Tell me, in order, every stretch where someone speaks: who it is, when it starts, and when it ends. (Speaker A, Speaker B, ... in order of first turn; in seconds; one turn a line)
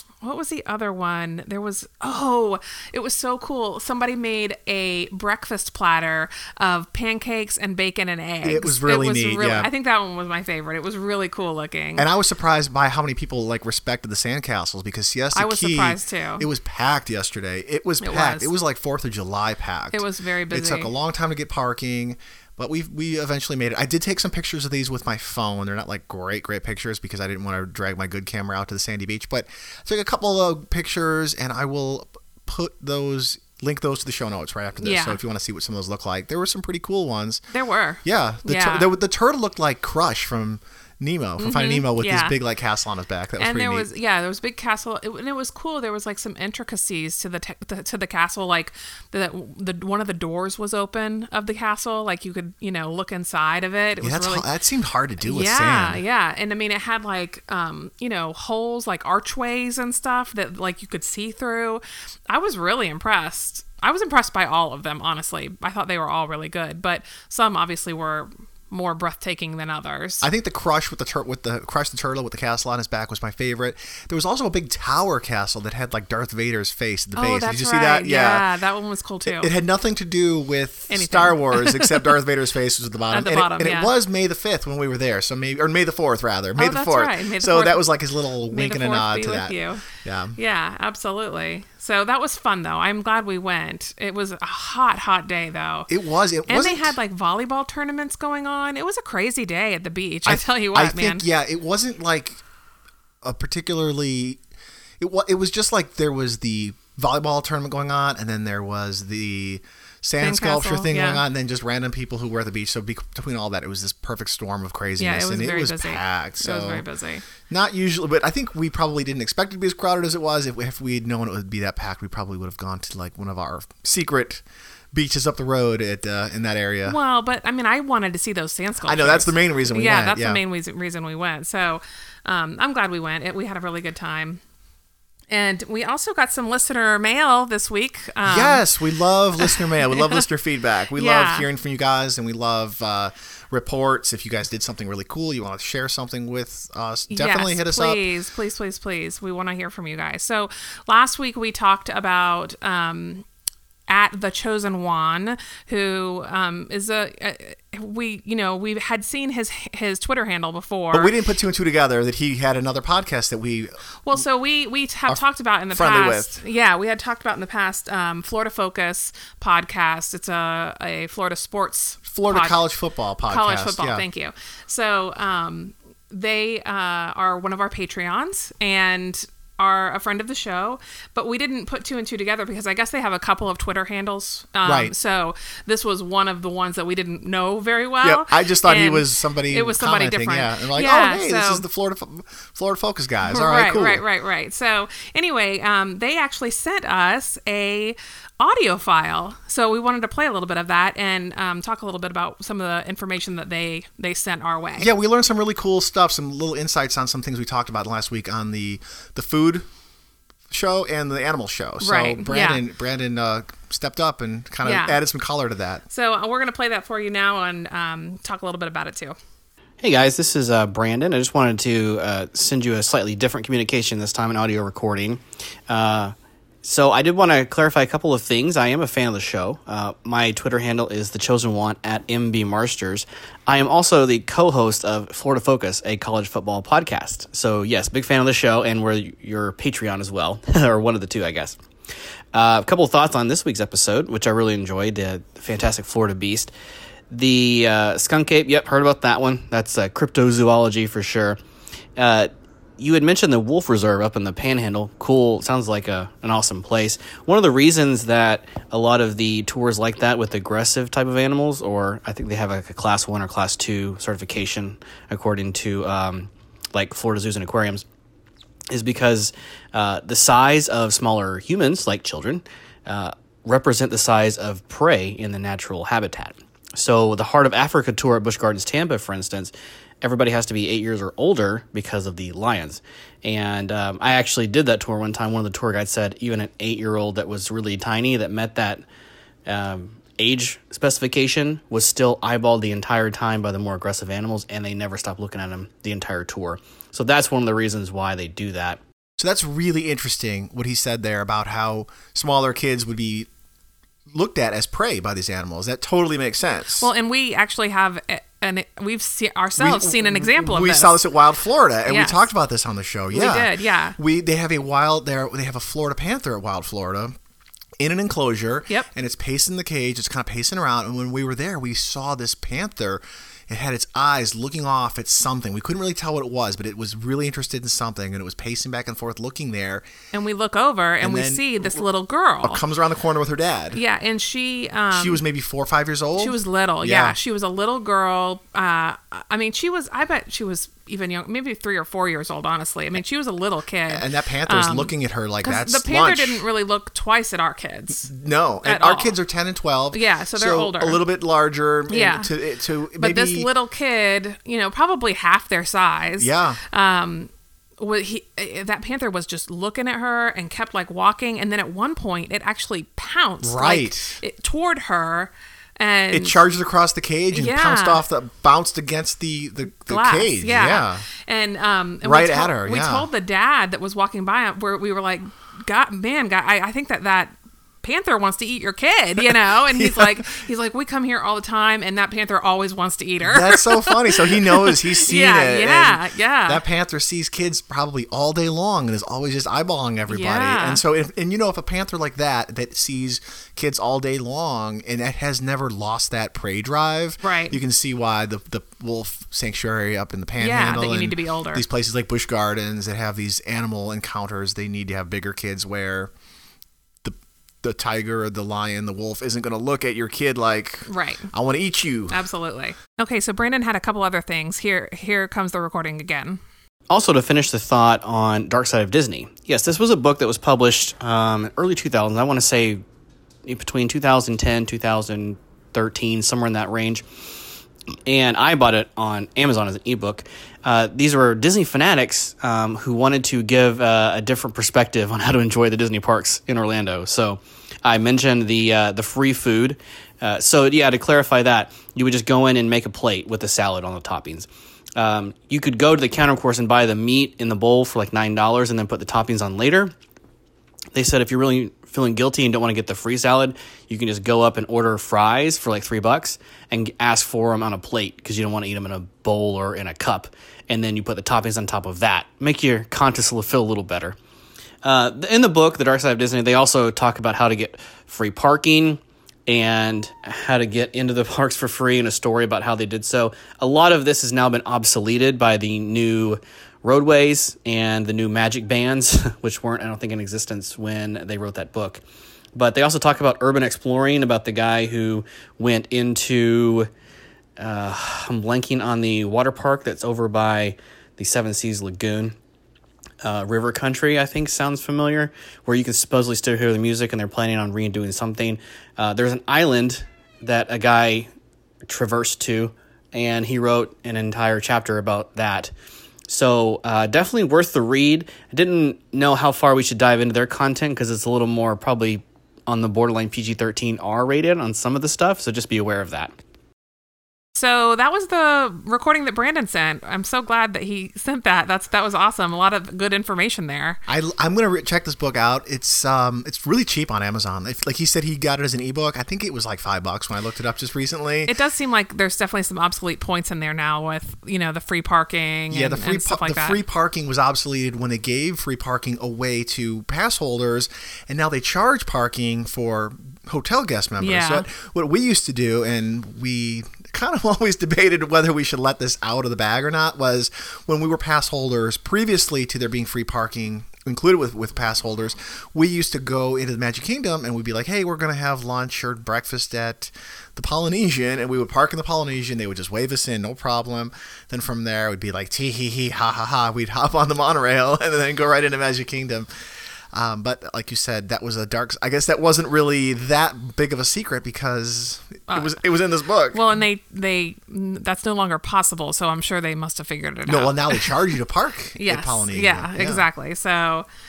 Speaker A: 0.2-12.1
Speaker B: 8.4-9.7
Speaker B: 12.0-37.4
Speaker A: 15.3-16.5
Speaker A: 18.0-18.5
Speaker A: 19.9-20.9
Speaker A: 34.8-35.2
Speaker A: 37.5-38.9
Speaker B: 38.0-43.9
Speaker A: 41.4-42.4
Speaker A: 43.4-54.5
Speaker B: 54.0-56.0
Speaker A: 55.2-70.2
Speaker B: 70.2-78.4
Speaker A: 77.2-79.5
Speaker B: 79.2-90.4
Speaker A: 80.9-82.1
Speaker A: 83.1-83.9
Speaker A: 86.6-87.8
Speaker A: 88.5-89.8
Speaker A: 90.3-95.9
Speaker B: 95.9-96.9
Speaker A: 96.5-101.2
Speaker B: 100.2-102.4
Speaker B: 103.2-104.4
Speaker B: 105.0-116.8
Speaker A: 110.2-111.2
Speaker A: 115.0-117.2
Speaker B: 117.5-127.0
Speaker A: 126.8-134.4
Speaker B: 128.8-130.4
Speaker A: 135.3-138.6
Speaker B: 138.2-148.0
Speaker A: 139.4-140.2
Speaker A: 140.9-141.4
Speaker A: 147.1-153.2
Speaker A: 153.9-161.1
Speaker B: 160.9-163.8
Speaker A: 164.0-172.6
Speaker B: 165.7-166.4
Speaker B: 172.1-174.0
Speaker A: 173.3-191.6
Speaker B: 184.6-184.9
Speaker B: 188.0-194.0
Speaker A: 193.2-204.9
Speaker B: 204.8-209.7
Speaker B: 210.5-215.8
Speaker A: 211.8-212.6
Speaker A: 214.6-215.0
Speaker A: 215.9-219.2
Speaker C: 219.8-241.6
Speaker C: 242.3-246.5
Speaker C: 247.1-251.4
Speaker C: 251.9-267.8
Speaker C: 268.7-288.8
Speaker C: 289.4-298.8
Speaker B: 299.2-303.3
Speaker B: 304.1-306.9
Speaker A: 306.8-310.9
Speaker B: 309.6-317.1
Speaker A: 311.9-312.2
Speaker A: 313.1-314.0
Speaker B: 317.8-329.8
Speaker A: 330.1-332.6
Speaker B: 331.0-331.8
Speaker B: 332.4-333.8
Speaker A: 333.7-335.2
Speaker B: 334.9-337.1
Speaker A: 336.1-348.1
Speaker B: 343.9-346.4
Speaker B: 348.0-353.5
Speaker A: 348.6-349.1
Speaker A: 349.9-351.0
Speaker A: 351.9-352.3
Speaker A: 353.0-366.4
Speaker B: 356.2-356.6
Speaker B: 363.4-364.2
Speaker B: 366.1-371.0
Speaker A: 367.3-368.0
Speaker A: 369.9-386.6
Speaker B: 372.0-373.1
Speaker B: 379.2-380.4
Speaker B: 383.2-406.1
Speaker A: 390.1-390.8
Speaker A: 397.2-397.6
Speaker A: 400.4-401.6
Speaker B: 407.0-412.2
Speaker A: 410.9-411.3
Speaker A: 412.1-416.4
Speaker C: 416.9-422.8
Speaker C: 423.4-427.0
Speaker C: 428.1-449.9
Speaker C: 450.9-464.1
Speaker C: 464.8-482.0
Speaker C: 482.6-486.9
Speaker C: 487.6-492.4
Speaker C: 493.2-501.3
Speaker C: 501.9-505.7
Speaker C: 506.3-516.3
Speaker A: 517.5-524.0
Speaker B: 524.1-531.5
Speaker A: 531.5-536.8
Speaker B: 535.7-569.5
Speaker A: 544.2-544.6
Speaker B: 570.1-576.6
Speaker A: 575.5-575.8
Speaker A: 576.5-581.2
Speaker B: 580.5-583.2
Speaker A: 582.0-584.0